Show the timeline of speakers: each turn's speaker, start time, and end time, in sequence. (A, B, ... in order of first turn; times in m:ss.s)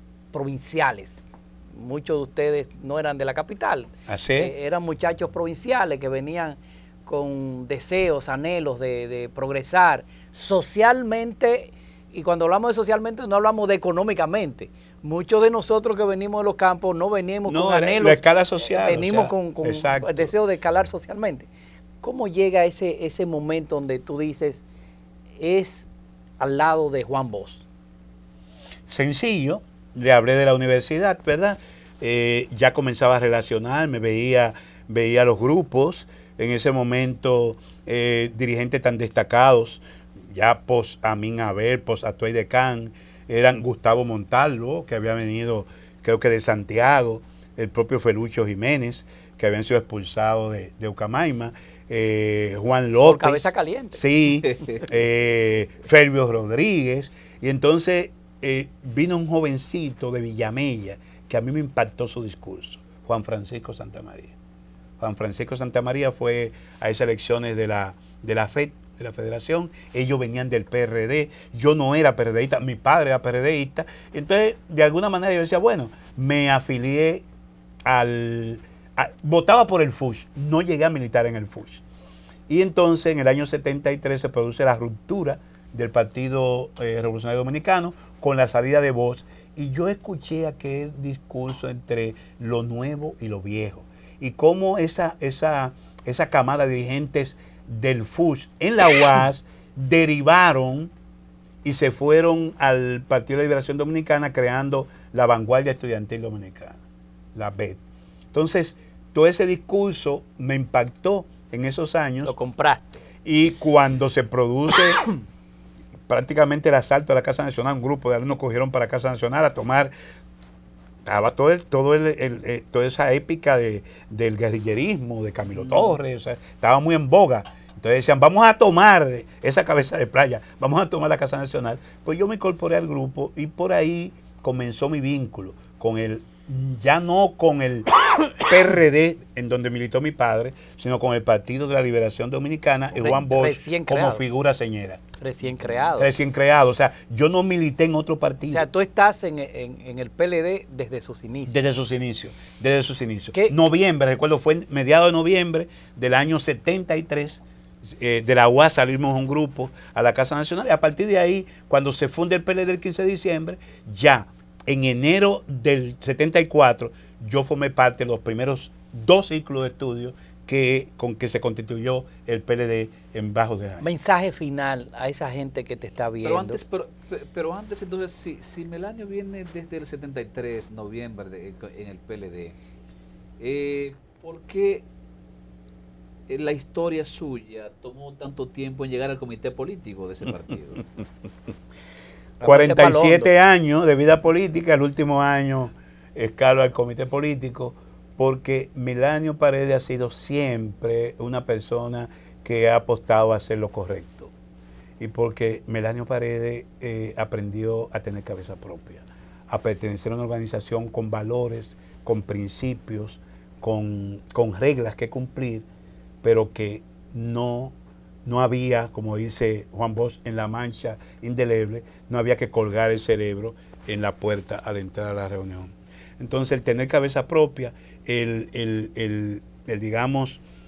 0:00.3-0:18.2 A
0:04.1-0:04.5 B
0:17.4-0:20.3 B
0:18.7-0:21.5 A
0:22.0-0:24.6 A
0:25.4-0:25.9 A
0:26.4-0:27.6 A
0:28.9-1:04.3 B
0:53.0-0:54.0 A
0:54.4-0:54.8 C
1:05.0-1:17.2 B
1:17.8-1:21.8 B
1:22.5-1:40.9 B
1:41.6-1:46.8 B
1:47.3-1:47.8 B
1:48.3-1:52.3 B
1:52.2-1:53.0 A
1:53.2-1:55.1 B
1:56.1-1:59.9 B
2:01.0-2:25.0 B
2:22.9-2:24.2 A
2:25.2-2:26.1 A
2:25.5-2:25.9 C
2:26.0-2:28.7 B
2:28.4-2:31.6 A
2:31.5-2:53.8 B
2:53.8-2:56.6 A
2:56.2-3:02.5 C
3:03.4-3:04.8 C
3:06.3-3:10.8 C
3:12.4-3:13.3 A
3:12.4-3:24.3 B
3:25.0-3:35.6 B
3:36.2-3:50.4 B